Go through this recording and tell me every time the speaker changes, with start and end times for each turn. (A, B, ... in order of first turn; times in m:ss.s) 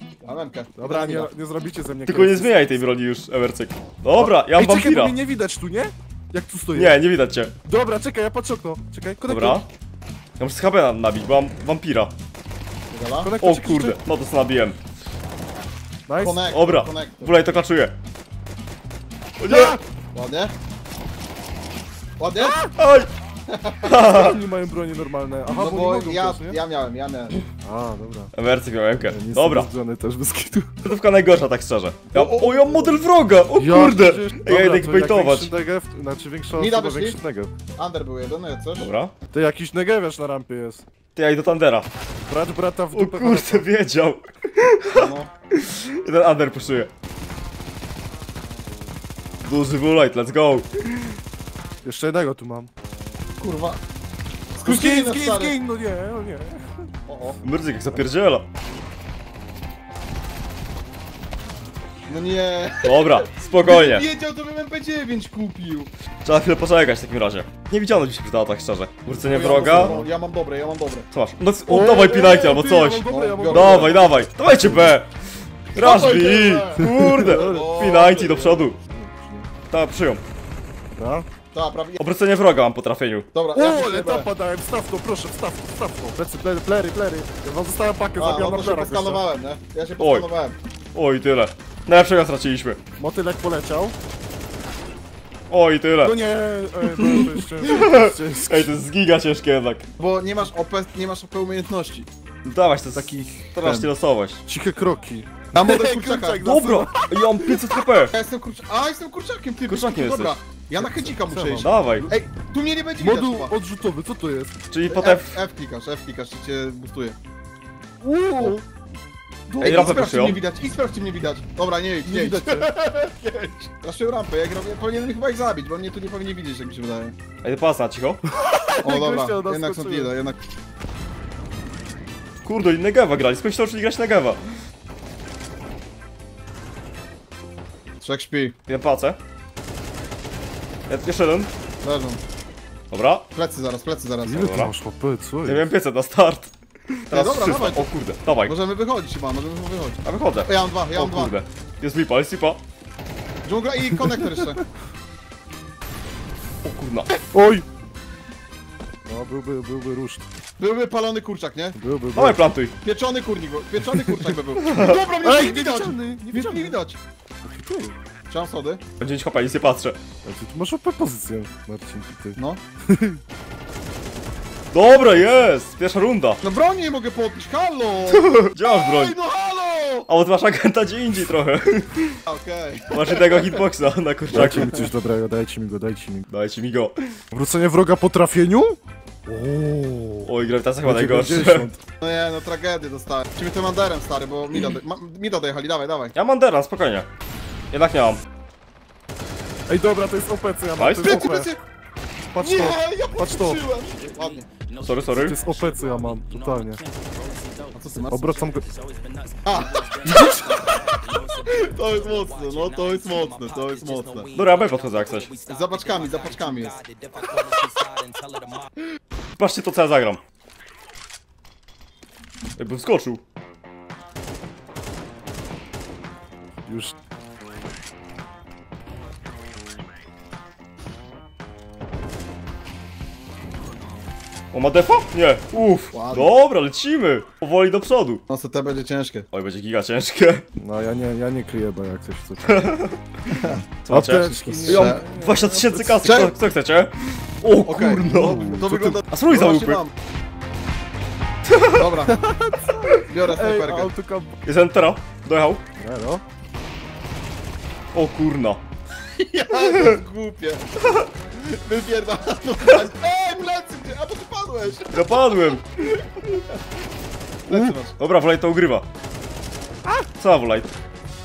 0:00.2-0:01.3 A
0:00.8-0:02.8 B
0:02.1-0:05.2 C
0:04.2-0:07.0 B
0:06.7-0:07.5 C
0:07.6-0:09.6 B
0:09.3-0:09.7 C
0:10.4-0:12.1 C
0:12.9-0:13.3 A
0:13.2-0:14.0 B
0:13.4-0:14.8 C
0:16.1-0:16.4 B
0:16.2-0:17.4 A
0:16.5-0:18.0 C
0:19.4-0:19.8 C
0:19.5-0:20.5 A
0:22.2-0:22.6 A
0:22.4-0:23.1 C
0:23.5-0:24.0 A
0:23.8-0:24.4 C
0:23.9-0:26.6 B
0:25.5-0:27.4 A
0:27.6-0:28.3 B
0:28.3-0:29.7 C
0:29.1-0:30.7 B
0:30.8-0:35.5 C
0:32.1-0:33.1 A
0:33.5-0:37.5 B
0:36.5-0:37.2 A
0:37.8-0:38.9 A
0:38.8-0:39.1 C
0:39.3-0:40.8 B
0:41.2-0:41.9 C
0:42.3-0:43.7 B
0:42.9-0:46.9 C
0:44.9-0:45.3 A
0:49.4-0:51.1 C
0:51.8-0:52.7 B
0:53.4-0:53.8 A
0:54.6-0:55.6 A
0:54.6-0:56.9 B
0:57.1-0:57.4 A
0:57.4-0:58.5 C
1:02.1-1:05.9 A
1:02.8-1:04.0 C
1:06.2-1:10.0 C
1:09.2-1:11.1 A
1:09.3-1:10.1 B
1:11.1-1:15.1 C
1:11.7-1:14.9 B
1:13.0-1:14.0 A
1:15.7-1:18.8 C
1:15.8-1:18.7 A
1:16.8-1:17.7 B
1:18.9-1:19.5 B
1:19.7-1:20.2 C
1:20.9-1:21.3 B
1:21.5-1:22.0 A
1:22.0-1:23.3 C
1:23.3-1:24.3 A
1:23.5-1:29.2 B
1:28.2-1:30.6 A
1:30.0-1:30.3 C
1:30.9-1:32.8 C
1:33.0-1:34.0 B
1:35.5-1:36.2 C
1:36.0-1:38.7 B
1:36.9-1:39.9 C
1:40.0-1:42.1 A
1:42.4-1:44.4 C
1:42.9-1:43.5 B
1:43.6-1:43.9 A
1:44.4-1:47.7 B
1:45.5-1:46.5 A
1:46.4-1:48.1 C
1:48.1-1:53.5 A
1:49.7-1:50.4 C
1:50.8-1:51.7 B
1:51.6-1:52.1 C
1:53.0-1:54.6 B
1:54.7-1:55.3 C
1:54.9-1:57.2 A
1:58.0-1:58.7 B
1:59.5-2:00.0 B
1:59.6-2:00.4 C
1:59.6-2:07.2 A
2:02.0-2:02.7 B
2:07.4-2:08.2 C
2:08.4-2:10.1 B
2:08.8-2:10.4 A
2:12.4-2:14.4 C
2:18.0-2:18.6 A
2:18.7-2:19.2 C
2:20.9-2:21.5 C
2:21.8-2:22.2 A
2:22.9-2:23.3 C
2:23.3-2:24.5 A
2:24.2-2:25.7 B
2:24.4-2:24.7 C
2:25.4-2:28.6 C
2:27.1-2:27.9 A
2:28.4-2:31.4 A
2:30.0-2:32.6 C
2:33.4-2:34.6 A
2:36.6-2:37.1 C
2:37.3-2:37.6 B
2:39.0-2:40.2 B
2:40.6-2:41.8 A
2:41.8-2:42.4 B
2:42.1-2:42.7 C
2:42.8-2:47.0 A
2:44.6-2:45.0 C
2:45.2-2:46.8 B
2:47.4-2:48.0 B
2:48.3-2:48.8 A
2:49.0-2:50.0 C
2:50.2-2:53.2 B
2:52.4-2:52.6 A
2:54.7-2:56.4 C
2:56.4-3:00.1 A
2:58.1-2:59.2 C
3:00.1-3:02.2 C
3:02.3-3:03.6 A
3:02.9-3:04.8 C
3:04.3-3:06.3 B
3:06.3-3:07.0 C
3:07.3-3:10.3 B
3:10.2-3:11.7 C
3:10.8-3:11.8 B
3:12.0-3:16.2 A
3:16.2-3:17.1 C
3:17.7-3:18.2 C
3:19.7-3:21.5 B
3:20.8-3:21.3 C
3:21.0-3:21.6 A
3:22.3-3:23.6 B
3:22.4-3:24.5 A
3:24.8-3:25.4 C
3:25.2-3:26.8 B
3:27.7-3:28.2 A
3:28.1-3:28.7 B
3:29.4-3:34.3 A
3:30.0-3:30.6 B
3:34.4-3:35.3 C
3:35.4-3:37.7 A
3:39.4-3:40.2 C
3:42.6-3:43.2 C
3:46.7-3:47.0 B
3:54.5-3:58.2 C
3:55.9-3:56.3 A
3:58.3-3:59.3 A
3:59.3-4:00.4 C
4:00.6-4:02.6 B
4:02.5-4:03.0 C
4:03.3-4:03.6 A
4:03.8-4:09.8 C
4:03.9-4:06.1 B
4:04.6-4:05.0 A
4:06.0-4:06.4 A
4:07.6-4:09.9 A
4:11.7-4:12.2 A
4:12.1-4:14.4 B
4:13.0-4:13.9 A
4:14.4-4:15.6 C
4:15.8-4:16.2 B
4:17.9-4:18.6 C
4:19.2-4:25.6 A
4:24.9-4:26.0 C
4:27.5-4:28.0 A
4:28.0-4:28.8 C
4:30.2-4:30.7 C